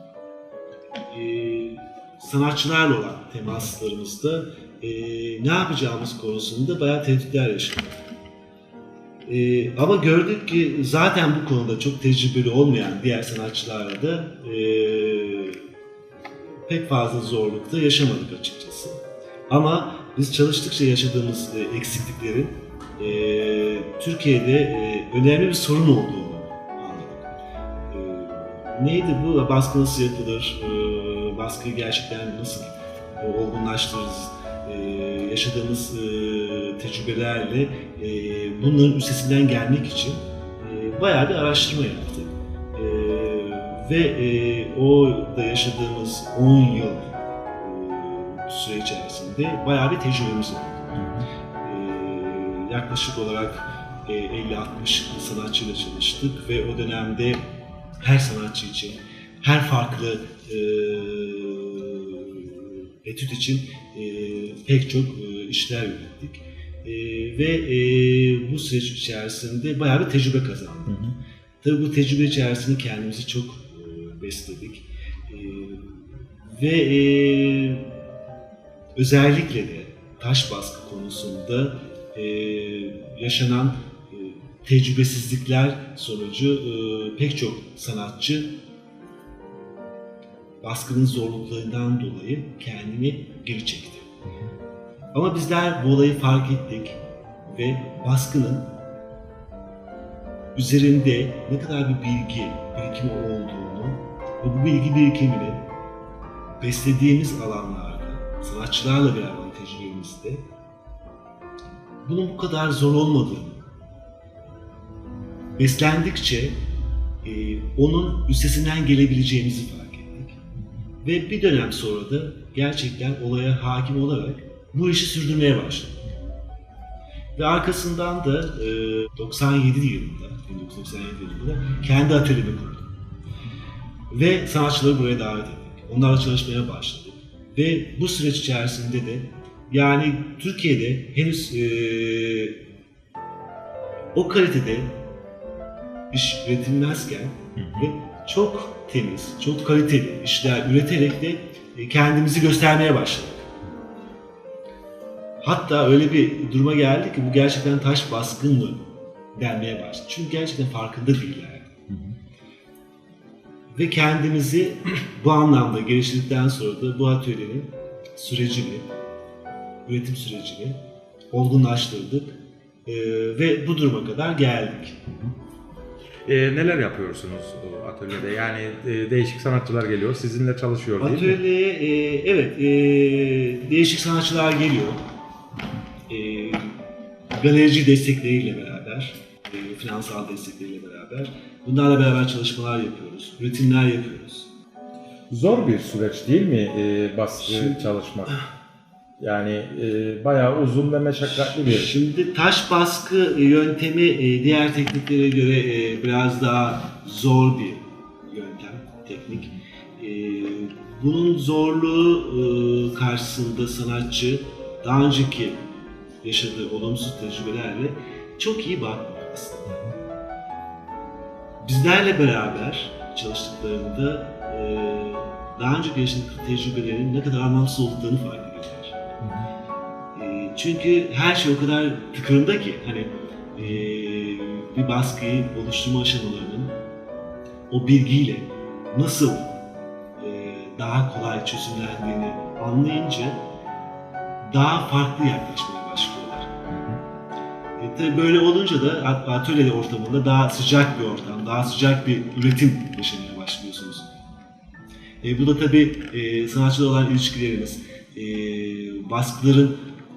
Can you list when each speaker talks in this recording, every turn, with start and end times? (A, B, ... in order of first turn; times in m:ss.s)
0:01.1-0:07.9 A
0:09.2-0:15.6 A
0:16.6-0:27.3 A
0:27.9-0:51.1 A
0:51.0-0:51.2 B
0:51.6-0:57.4 A
0:58.0-1:11.1 A
1:10.9-1:11.1 B
1:11.6-1:17.9 A
1:19.0-1:28.5 A
1:30.6-1:34.1 A
1:35.1-1:38.7 A
1:40.6-1:45.6 A
1:46.6-1:50.4 A
1:52.0-1:53.6 A
1:55.6-1:56.6 A
1:57.2-2:00.4 A
2:01.0-2:06.0 A
2:07.4-2:12.9 A
2:14.1-2:22.6 A
2:24.1-2:24.9 A
2:26.1-2:33.5 A
2:27.6-2:27.9 B
2:35.4-2:41.8 A
2:41.9-2:42.1 B
2:43.7-2:48.9 A
2:49.8-2:50.8 A
2:51.3-2:55.0 A
2:55.1-2:55.3 B
2:56.2-3:01.4 B
3:01.0-3:05.0 A
3:06.1-3:06.7 A
3:07.3-3:14.5 A
3:15.3-3:18.4 B
3:17.4-3:17.9 A
3:19.2-3:21.9 B
3:21.3-3:35.6 A
3:36.2-3:39.9 A
3:41.6-3:49.1 A
3:49.2-3:49.5 B
3:50.1-3:56.7 A
3:57.7-3:59.5 A
4:00.2-4:03.4 A
4:04.4-4:06.6 A
4:06.7-4:07.0 B
4:07.8-4:14.2 A
4:15.2-4:19.8 A